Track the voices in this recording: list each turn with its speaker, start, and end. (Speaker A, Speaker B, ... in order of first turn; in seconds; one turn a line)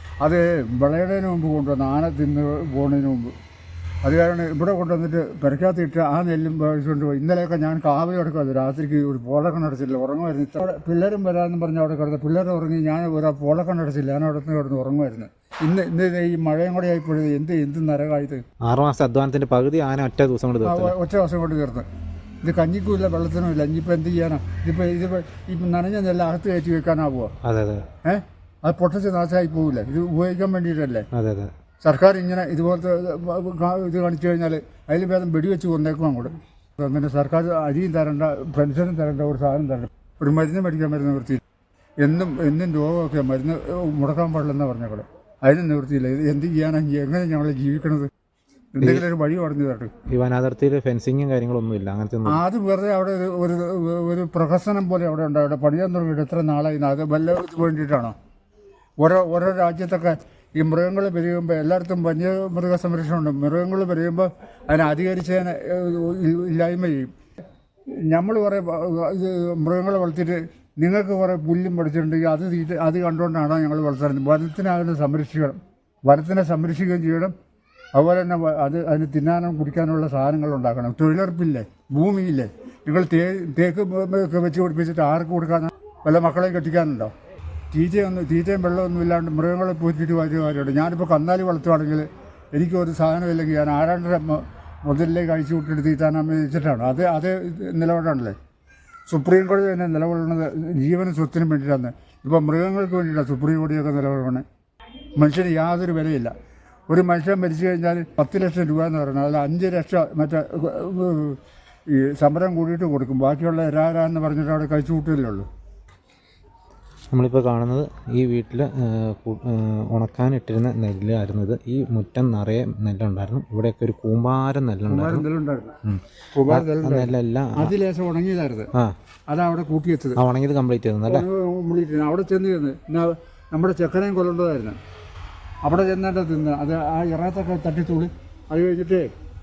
Speaker A: 0.2-3.3
Speaker A: 4.0-18.4
Speaker B: 18.7-20.9
Speaker A: 20.6-21.9
Speaker A: 22.4-27.3
Speaker B: 27.4-27.9
Speaker A: 28.0-31.1
Speaker B: 31.1-31.5
Speaker A: 31.8-41.4
Speaker A: 42.0-48.1
Speaker A: 48.8-49.9
Speaker B: 50.1-52.4
Speaker A: 52.3-58.1
Speaker A: 59.0-67.1
Speaker A: 68.1-77.3
Speaker A: 78.0-87.1
Speaker A: 87.7-98.3
Speaker A: 99.1-104.4
Speaker A: 105.2-106.3
Speaker A: 106.9-115.5
Speaker B: 117.1-125.3
Speaker A: 124.9-125.8
Speaker B: 125.8-127.7
Speaker A: 126.3-128.7
Speaker A: 129.3-130.2
Speaker B: 130.2-131.3
Speaker A: 131.1-134.8
Speaker A: 135.6-139.1